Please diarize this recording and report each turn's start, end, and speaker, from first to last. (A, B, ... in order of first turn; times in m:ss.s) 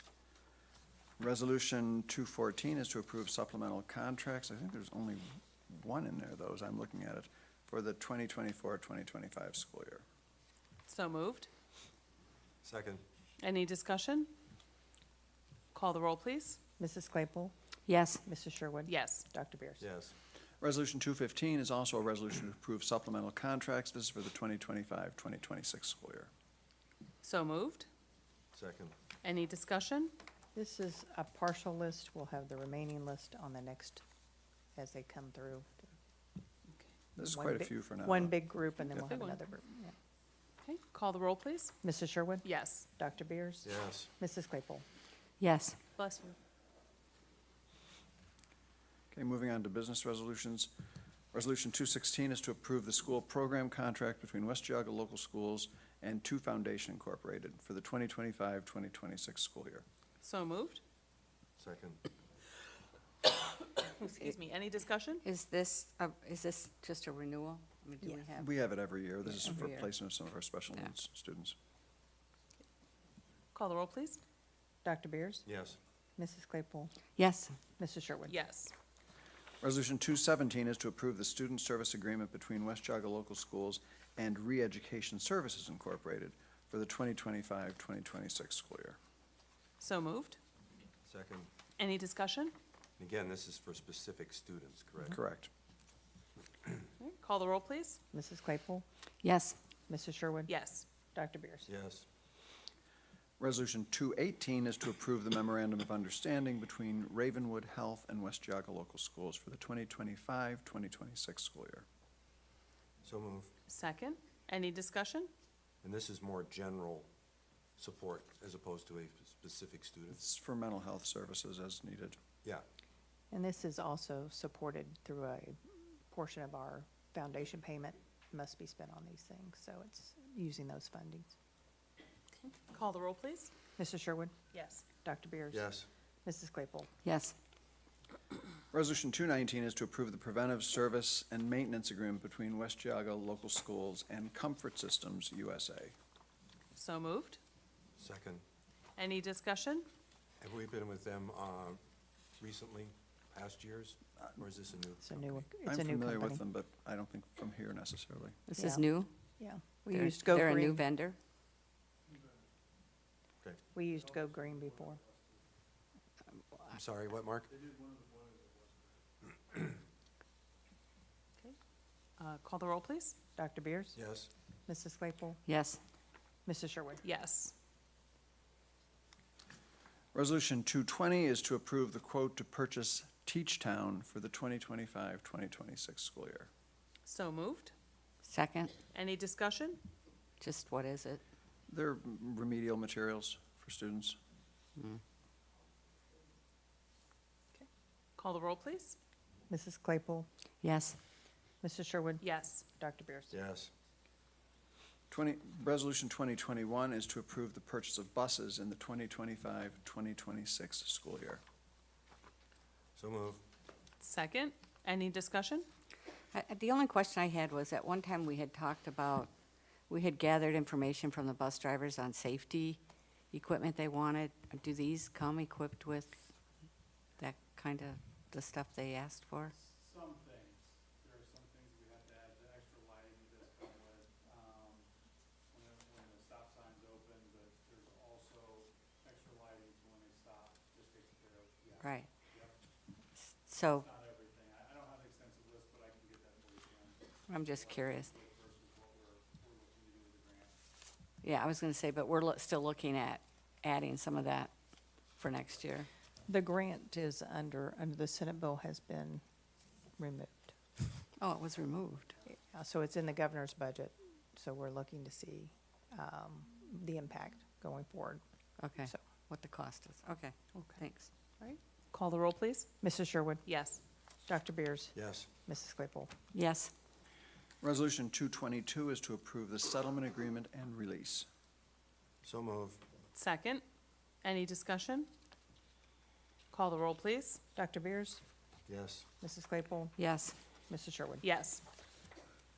0:01.2-0:10.0 A
0:10.9-0:11.5 B
0:12.6-0:13.0 C
0:13.4-0:14.3 B
0:15.7-0:16.6 B
0:16.8-0:17.5 D
0:17.9-0:18.2 E
0:18.2-0:19.9 D
0:18.9-0:19.3 B
0:19.8-0:20.1 C
0:20.6-0:26.3 A
0:27.2-0:27.9 B
0:28.5-0:29.0 C
0:29.2-0:30.1 B
0:30.6-0:34.0 D
0:34.8-0:35.9 D
0:37.2-0:38.4 A
0:37.3-0:40.0 D
0:38.8-0:39.4 B
0:40.6-0:41.8 B
0:41.8-0:44.8 D
0:42.4-0:42.9 B
0:43.6-0:44.1 C
0:45.4-0:45.8 E
0:46.0-0:46.4 B
0:49.1-0:50.7 A
0:51.3-0:59.8 A
1:00.2-1:00.8 B
1:01.6-1:02.0 C
1:03.8-1:05.2 B
1:05.2-1:08.5 E
1:08.0-1:11.6 A
1:09.2-1:09.9 E
1:13.5-1:14.2 B
1:14.8-1:15.4 D
1:15.4-1:15.8 C
1:16.2-1:17.0 D
1:17.2-1:17.6 E
1:17.8-1:18.4 D
1:18.3-1:18.7 B
1:19.6-1:29.0 A
1:29.8-1:30.4 B
1:31.0-1:31.5 C
1:31.8-1:32.6 B
1:33.0-1:35.2 C
1:35.1-1:35.5 A
1:37.0-1:38.0 B
1:38.1-1:38.9 D
1:39.2-1:39.6 E
1:39.9-1:40.5 D
1:40.5-1:40.9 B
1:41.1-1:41.7 D
1:41.7-1:42.1 C
1:43.4-1:51.8 A
1:53.0-1:53.5 C
1:53.7-1:55.3 B
1:55.8-1:57.1 C
1:57.8-2:00.2 C
2:00.1-2:02.2 A
2:03.3-2:11.4 D
2:12.4-2:13.5 B
2:13.8-2:14.4 D
2:14.5-2:14.8 B
2:14.9-2:15.7 D
2:15.5-2:15.9 C
2:16.2-2:16.9 D
2:17.0-2:17.4 E
2:18.7-2:26.0 A
2:26.8-2:27.4 B
2:28.0-2:28.4 C
2:29.0-2:29.9 B
2:30.4-2:31.8 C
2:32.4-2:35.0 C
2:35.0-2:36.4 D
2:35.2-2:38.4 A
2:38.5-2:39.1 E
2:38.6-2:38.9 D
2:39.4-2:40.8 D
2:39.9-2:41.2 E
2:43.7-2:45.0 D
2:46.7-2:47.6 C
2:47.7-2:48.1 F
2:52.2-2:53.2 B
2:53.4-2:54.0 D
2:54.0-2:54.3 C
2:54.7-2:55.4 D
2:55.5-2:55.8 E
2:56.5-2:57.0 D
2:57.0-2:57.5 B
3:00.1-3:06.5 A
3:07.1-3:07.7 B
3:08.2-3:08.8 E
3:08.9-3:09.8 B
3:10.4-3:11.2 E
3:11.7-3:14.2 A
3:17.5-3:19.0 B
3:19.5-3:20.3 D
3:20.6-3:21.0 E
3:21.6-3:23.4 D
3:22.2-3:22.6 B
3:23.3-3:23.7 C
3:25.1-3:31.4 A
3:33.0-3:33.4 C
3:34.0-3:35.7 B
3:36.3-3:39.3 E
3:39.9-3:42.8 E
3:43.3-3:46.2 E
3:47.2-3:49.5 E
3:49.6-3:54.9 F
3:55.5-4:02.6 F
4:01.8-4:02.1 E
4:03.4-4:03.9 E
4:03.8-4:10.5 F
4:07.3-4:08.2 E
4:11.2-4:14.5 E
4:15.2-4:15.9 E
4:16.3-4:19.2 D
4:20.0-4:20.6 D
4:21.2-4:22.1 E
4:22.3-4:28.2 D
4:28.6-4:31.1 E
4:30.5-4:30.8 B
4:31.4-4:32.7 B
4:32.8-4:33.4 D
4:33.4-4:33.8 B
4:34.2-4:36.1 D
4:34.9-4:35.3 C
4:36.3-4:36.7 E
4:37.6-4:41.3 A
4:42.2-4:42.8 C
4:43.2-4:43.6 B
4:44.2-4:45.1 B
4:46.5-4:47.4 B
4:47.6-4:48.2 D
4:48.7-4:49.1 C
4:49.2-4:50.0 D
4:50.0-4:50.4 E
4:50.7-4:51.2 D
4:51.2-4:51.6 B